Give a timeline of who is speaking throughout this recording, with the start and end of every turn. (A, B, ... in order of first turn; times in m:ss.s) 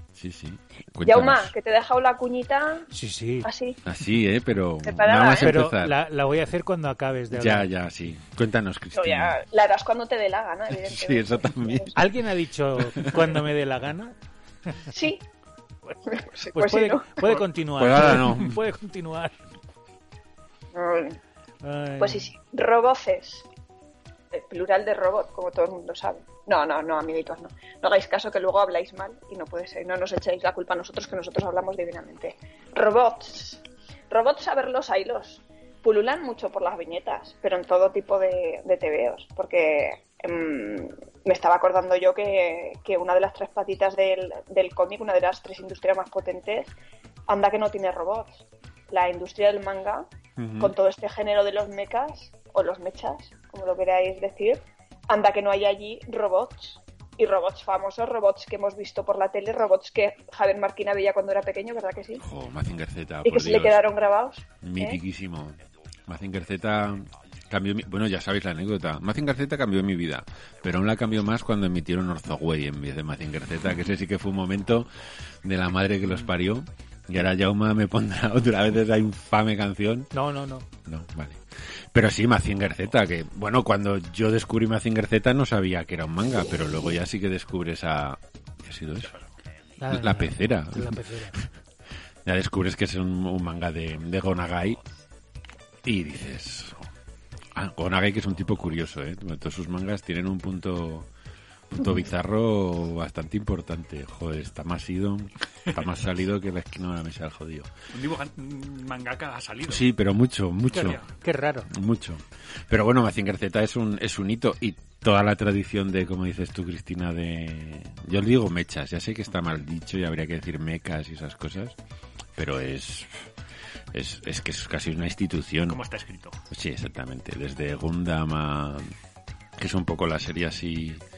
0:00.2-0:01.5 A
0:01.0-0:02.9 B
0:02.9-0:03.5 C
0:03.4-0:03.8 B
0:03.8-0:06.0 A
0:04.8-0:05.5 B
0:05.4-0:07.7 C
0:07.3-0:09.4 A
0:08.9-0:11.9 B
0:10.7-0:12.0 A
0:11.9-0:14.2 C
0:12.8-0:13.3 A
0:14.9-0:15.2 B
0:16.1-0:17.2 B
0:16.5-0:19.3 C
0:17.8-0:18.6 A
0:20.7-0:21.2 B
0:21.6-0:22.3 C
0:22.0-0:23.5 B
0:24.3-0:46.7 B
0:47.3-0:50.0 B
0:50.4-0:50.7 A
0:50.6-1:02.2 B
1:02.2-1:03.8 A
1:03.2-1:05.0 B
1:04.6-1:14.9 A
1:15.4-1:20.1 A
1:20.1-1:20.6 C
1:20.8-1:29.1 A
1:29.8-1:31.4 C
1:29.9-1:31.5 A
1:32.2-1:34.8 A
1:35.8-1:36.9 A
1:37.5-1:41.1 A
1:41.7-1:47.7 A
1:47.9-1:49.8 D
1:49.7-1:51.0 A
1:50.7-1:51.7 C
1:50.8-1:51.0 D
1:51.7-2:01.8 A
2:02.4-2:03.3 A
2:03.9-2:05.8 A
2:05.7-2:06.4 D
2:06.5-2:08.9 A
2:09.6-2:11.0 A